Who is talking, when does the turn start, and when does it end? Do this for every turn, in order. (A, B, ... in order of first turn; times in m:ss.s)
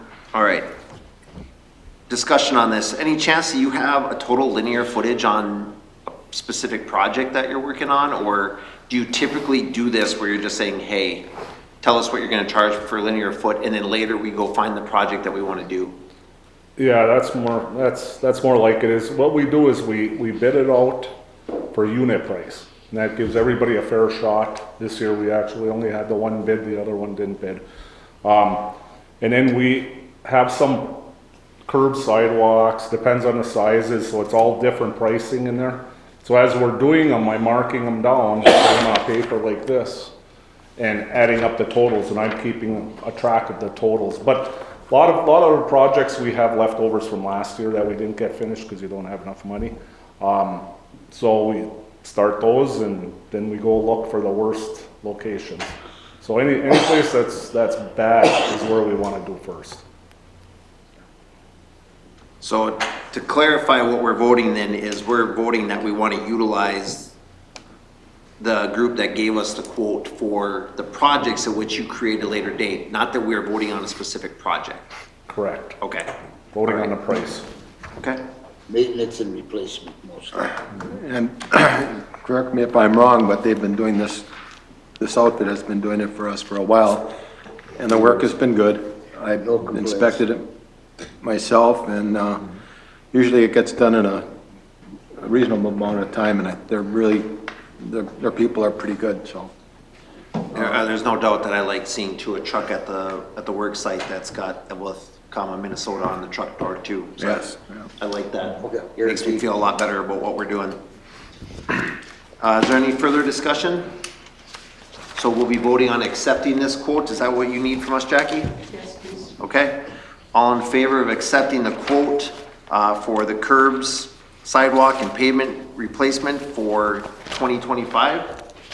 0:00.3-0:00.7 A
0:02.1-0:11.3 A
0:11.8-0:16.0 A
0:16.8-0:21.1 B
0:21.7-0:27.6 B
0:28.2-0:31.1 B
0:31.7-0:40.1 B
0:40.8-0:59.8 B
1:02.4-1:07.1 A
1:08.4-1:14.9 A
1:15.3-1:15.8 B
1:15.8-1:16.1 A
1:16.5-1:17.5 B
1:16.7-1:17.0 A
1:18.7-1:20.6 C
1:20.8-1:24.3 D
1:25.0-1:27.1 D
1:27.8-1:30.5 D
1:29.4-1:30.2 C
1:31.2-1:32.5 D
1:33.1-1:34.3 D
1:35.2-1:39.5 D
1:40.5-1:47.5 A
1:47.2-1:47.9 D
1:48.0-1:50.8 A
1:48.6-1:49.5 C
1:52.4-1:53.9 A
1:55.2-1:59.8 A
2:00.3-2:08.3 A